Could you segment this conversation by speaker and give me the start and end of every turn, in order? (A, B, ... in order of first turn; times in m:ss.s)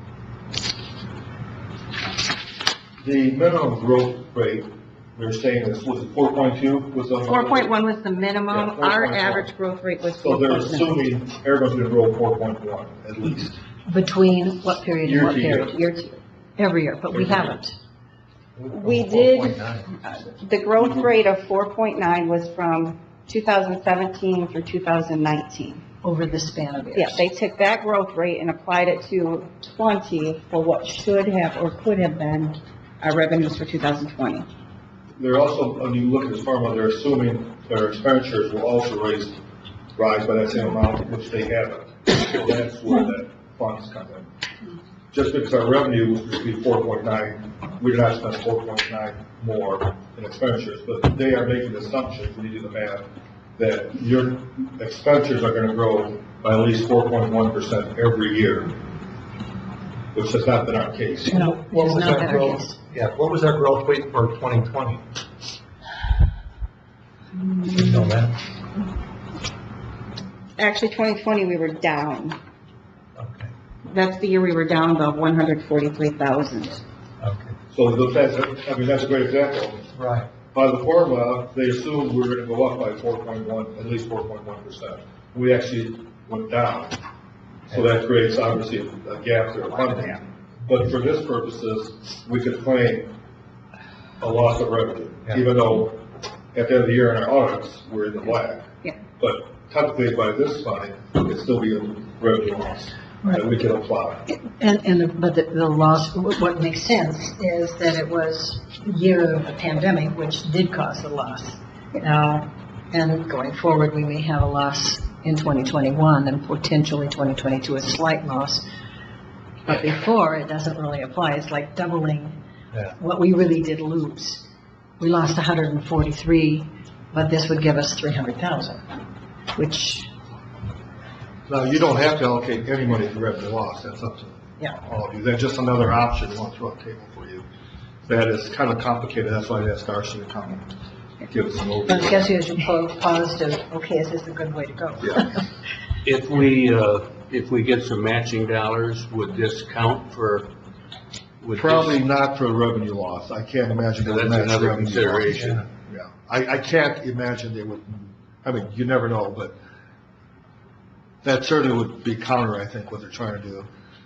0:03.0-0:07.7 A
0:07.3-0:11.0 B
0:08.5-0:09.5 A
0:10.2-0:13.6 A
0:13.9-0:15.6 C
0:15.0-0:15.8 A
0:15.4-0:16.2 B
0:16.6-0:17.8 C
0:17.1-0:17.6 A
0:18.6-0:20.0 D
0:18.7-0:25.8 B
0:26.0-0:27.2 C
0:27.0-0:34.5 B
0:35.2-0:39.4 A
0:40.0-0:44.3 A
0:45.1-0:53.1 A
0:53.6-0:58.8 A
1:00.1-1:01.5 A
1:01.3-1:05.0 D
1:01.3-1:02.8 C
1:07.5-1:08.1 B
1:07.7-1:08.4 D
1:10.6-1:12.4 B
1:13.2-1:13.5 D
1:13.8-1:16.8 B
1:17.2-1:17.6 D
1:17.7-1:19.9 A
1:20.0-1:20.3 D
1:20.5-1:27.0 A
1:27.7-1:33.1 A
1:34.2-1:36.0 A
1:36.5-1:38.7 A
1:39.2-1:44.2 A
1:44.3-1:58.6 C
1:59.7-2:02.4 C
2:03.0-2:04.4 C
2:05.0-2:08.8 C
2:09.6-2:10.1 C
2:11.5-2:17.4 A
2:18.1-2:20.7 A
2:21.2-2:22.3 A
2:21.9-2:25.5 C
2:26.0-2:30.5 E
2:31.4-2:32.0 E
2:31.6-2:39.6 A
2:34.0-2:35.6 E
2:41.2-2:43.7 A